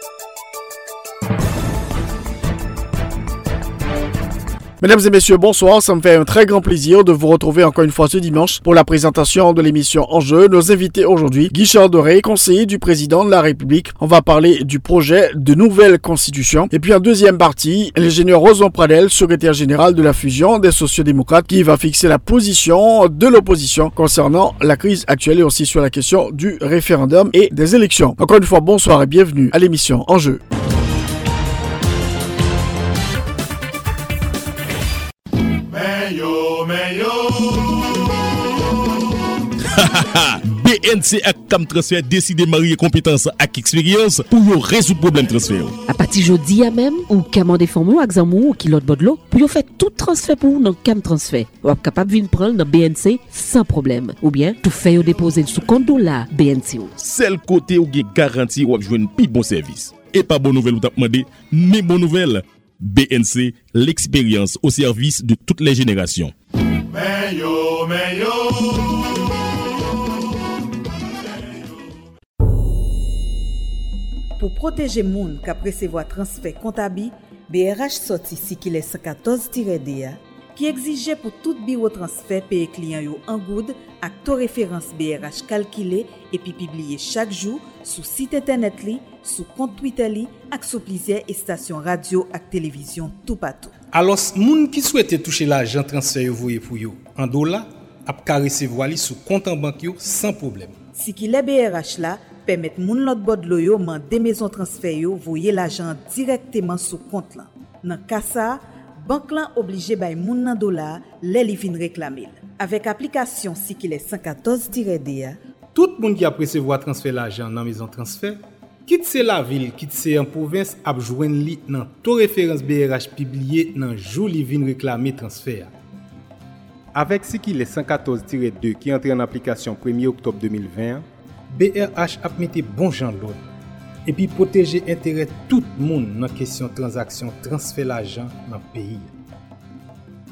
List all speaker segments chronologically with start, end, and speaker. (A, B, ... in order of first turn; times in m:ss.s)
0:04.8-0:30.4 A
0:39.7-0:45.8 B
0:45.9-0:56.9 C
0:57.0-1:06.3 B
1:14.4-1:33.7 D
1:33.9-1:40.7 E
1:41.0-1:55.4 D
1:55.7-2:05.7 E
2:06.9-2:13.4 E
2:14.0-2:19.1 E